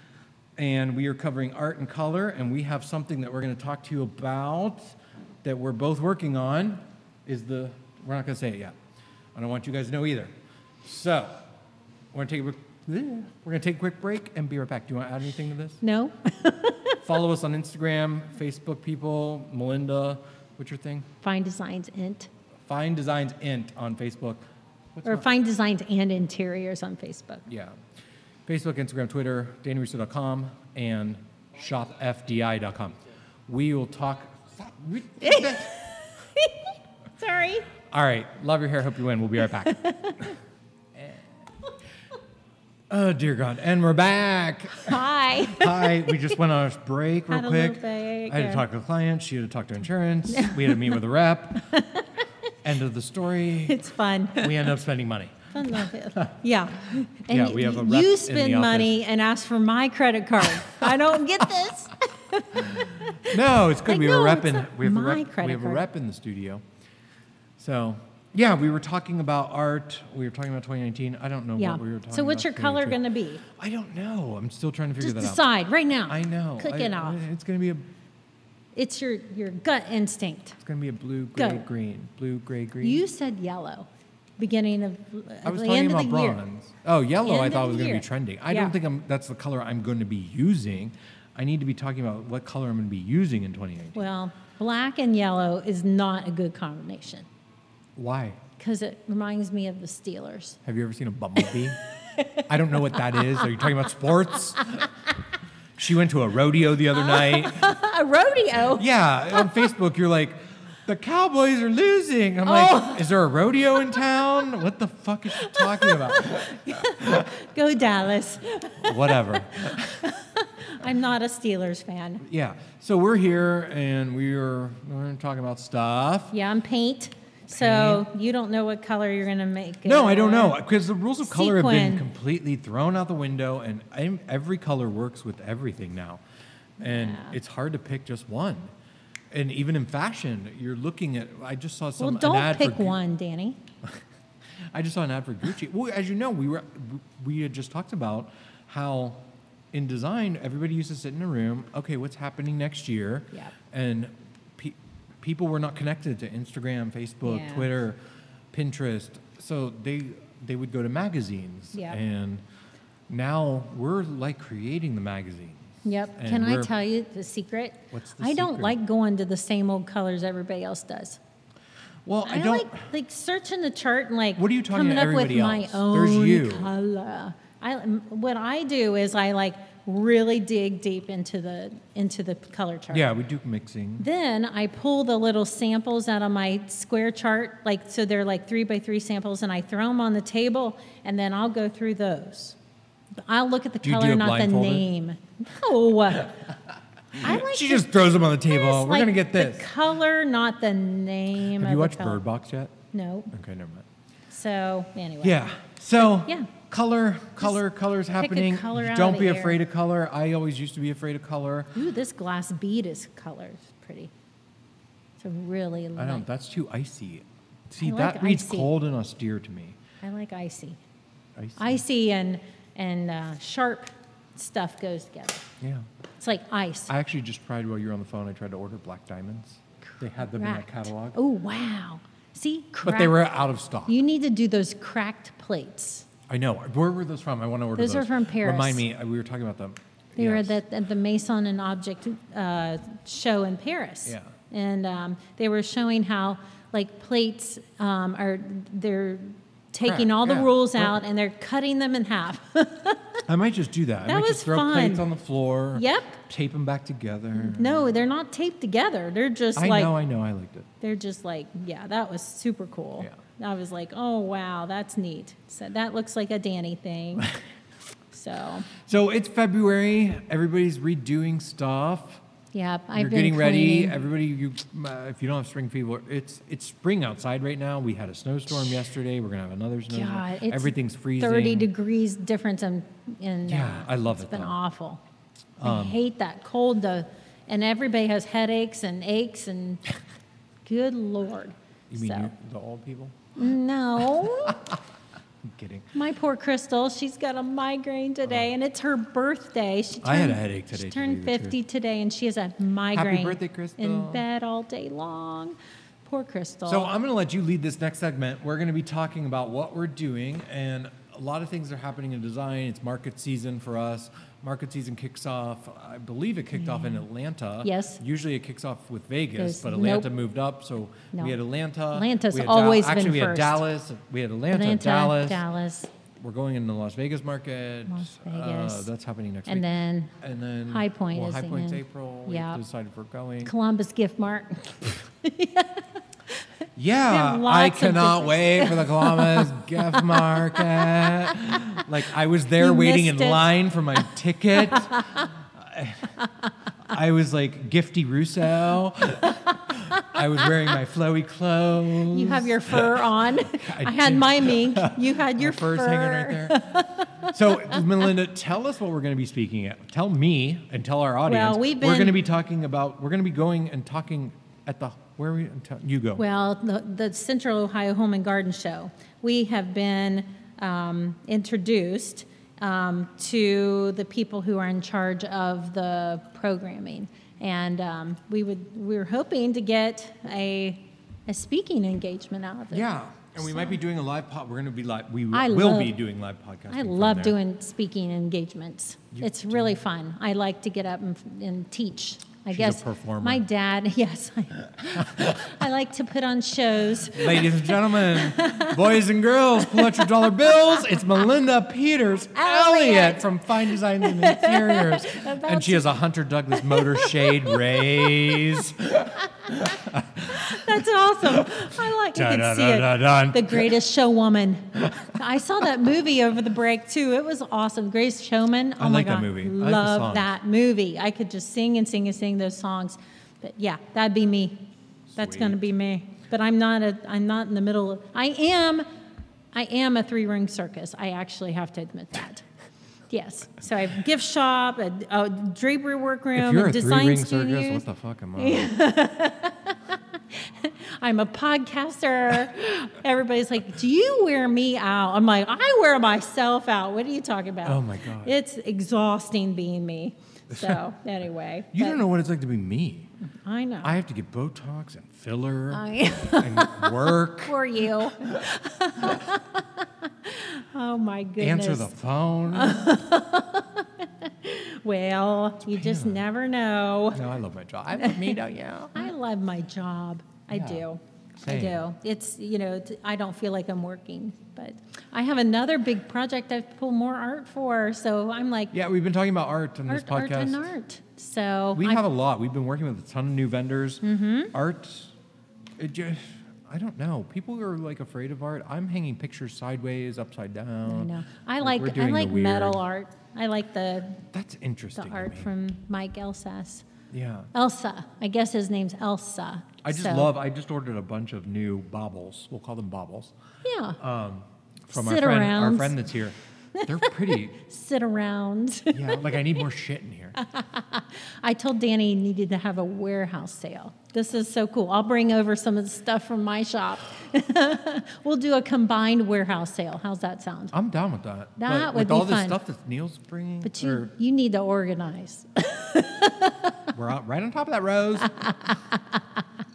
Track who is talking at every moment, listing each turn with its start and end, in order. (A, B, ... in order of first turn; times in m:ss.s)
0:00.6-0:08.7 A
0:09.4-0:10.3 A
0:10.8-0:11.4 A
0:12.1-0:15.8 A
0:15.8-0:17.0 B
0:17.0-0:21.1 A
0:21.2-0:22.3 B
0:22.7-0:24.4 A
0:25.0-0:25.3 A
0:25.0-0:27.4 B
0:27.5-0:27.8 A
0:28.5-0:35.9 A
0:35.2-0:37.7 B
0:37.9-0:40.3 A
0:39.6-0:40.3 B
0:42.9-0:51.8 A
0:44.8-0:46.2 B
0:47.3-0:48.6 B
0:50.3-0:51.0 B
0:51.6-0:52.2 B
0:52.6-0:53.8 A
0:53.6-0:54.7 B
0:54.4-0:56.3 A
0:55.5-1:05.8 B
0:57.3-0:58.9 A
1:02.6-1:06.6 A
1:07.6-1:15.4 A
1:11.6-1:13.4 B
1:15.0-1:17.2 B
1:16.1-1:17.9 A
1:18.8-1:20.6 B
1:20.6-1:23.0 A
1:21.4-1:21.6 B
1:22.8-1:26.4 B
1:25.4-1:34.0 A
1:27.2-1:28.8 B
1:34.0-1:37.3 B
1:38.0-1:38.4 A
1:38.6-1:40.6 B
1:40.6-1:41.8 A
1:41.9-1:43.7 B
1:42.5-1:44.9 A
1:45.8-1:47.7 A
1:47.0-1:48.8 B
1:48.8-1:57.3 A
1:52.4-1:53.1 B
1:55.4-2:02.2 B
1:58.8-2:00.1 A
2:02.2-2:06.4 A
2:06.3-2:10.6 B
2:07.5-2:08.1 A
2:09.8-2:16.2 A
2:11.2-2:12.1 B
2:16.8-2:18.7 A
2:16.8-2:17.4 B
2:19.3-2:23.0 A
2:22.0-2:23.6 B
2:24.7-2:29.2 A
2:29.7-2:38.0 A
2:37.2-2:37.7 B
2:38.5-2:42.4 A
2:41.7-2:42.0 B
2:43.1-2:46.7 A
2:45.8-2:51.2 B
2:47.9-2:48.8 A
2:52.0-2:52.9 A
2:52.2-3:03.1 B
2:54.4-2:56.7 A
3:02.9-3:04.1 A
3:04.0-3:12.6 B
3:13.2-3:16.5 B
3:13.8-3:14.8 A
3:17.2-3:19.7 A
3:17.2-3:17.9 B
3:18.4-3:22.2 B
3:21.5-3:22.8 A
3:22.9-3:23.3 B
3:23.3-3:23.8 A
3:24.3-3:25.4 B
3:25.2-3:31.8 A
3:26.0-3:26.5 B
3:28.2-3:29.6 B
3:31.8-3:34.1 B
3:35.2-3:36.2 B
3:36.0-3:39.8 A
3:37.8-3:38.7 B
3:40.0-3:40.8 B
3:41.4-3:41.8 A
3:41.6-3:45.5 B
3:45.6-3:45.9 A
3:46.2-3:46.9 B
3:46.9-3:51.2 A
3:49.9-3:53.2 B
3:52.8-3:54.0 A
3:53.9-3:56.1 B
3:56.3-4:00.6 A
3:57.8-3:58.8 B
4:00.2-4:13.2 B
4:04.0-4:04.3 A
4:09.8-4:11.0 A
4:13.2-4:17.8 A
4:14.1-4:15.1 B
4:15.7-4:16.2 B
4:17.4-4:19.9 B
4:19.6-4:20.7 A
4:20.8-4:27.3 B
4:28.1-4:28.7 B
4:28.8-4:32.2 A
4:32.5-4:33.9 B
4:33.0-4:41.7 A
4:39.9-4:45.0 B
4:43.5-4:44.6 A
4:45.6-4:46.0 A
4:45.6-4:49.8 B
4:50.6-4:52.3 B
4:51.9-4:53.2 A
4:53.4-4:54.7 B
4:55.4-4:55.9 A
4:55.9-5:06.9 B
5:00.0-5:01.6 A
5:02.9-5:04.2 A
5:06.7-5:25.4 A
5:16.6-5:17.0 B
5:17.6-5:18.0 B
5:19.4-5:20.1 B
5:21.9-5:23.6 B
5:24.5-5:25.9 B
5:26.2-5:29.7 A
5:27.9-5:28.9 B
5:29.5-5:30.2 B
5:30.2-5:33.5 A
5:30.7-5:32.6 B
5:33.4-5:36.5 B
5:36.8-5:46.2 A
5:37.1-5:41.4 B
5:42.6-5:44.0 B
5:44.6-5:45.3 B
5:46.2-5:46.5 B
5:46.9-6:06.2 A
5:52.1-5:57.8 B
6:01.2-6:02.2 B
6:06.2-6:22.9 B
6:22.7-6:27.4 A
6:23.4-6:23.8 B
6:25.3-6:26.0 B
6:26.7-6:39.0 B
6:29.1-6:29.7 A
6:32.5-6:33.4 A
6:34.9-6:35.5 A
6:37.1-6:53.7 A
6:39.6-6:41.0 B
6:42.3-6:45.9 B
6:46.5-6:48.6 B
6:50.3-7:08.9 B
6:58.8-7:00.3 A
7:05.1-7:05.6 A
7:09.5-7:12.4 B
7:13.1-7:17.8 B
7:16.3-7:18.7 A
7:18.4-7:32.0 B
7:27.6-7:28.4 A
7:30.5-7:30.8 A
7:31.7-7:33.1 A
7:33.4-7:33.9 B
7:33.8-7:37.6 A
7:35.7-7:41.9 B
7:41.4-7:42.9 A
7:42.5-7:47.2 B
7:45.7-7:46.2 A
7:47.1-7:49.1 A
7:47.9-7:48.4 B
7:49.0-7:58.7 B
7:50.5-7:50.8 A
7:51.4-7:51.8 A
7:58.7-8:00.6 A
7:59.9-8:02.0 B
8:01.8-8:05.1 A
8:04.0-8:04.5 B
8:05.8-8:12.8 A
8:10.9-8:14.2 B
8:14.3-8:15.5 A
8:15.0-8:16.9 B
8:17.1-8:17.5 A
8:17.5-8:20.3 B
8:19.8-8:23.3 A
8:23.6-8:24.0 B
8:24.0-8:27.5 A
8:24.9-8:26.1 B
8:26.8-8:29.6 B
8:28.9-8:30.4 A
8:30.4-8:40.7 B
8:40.7-8:44.1 A
8:41.6-8:42.6 B
8:43.6-8:46.8 B
8:46.9-8:48.5 A
8:48.2-8:49.4 B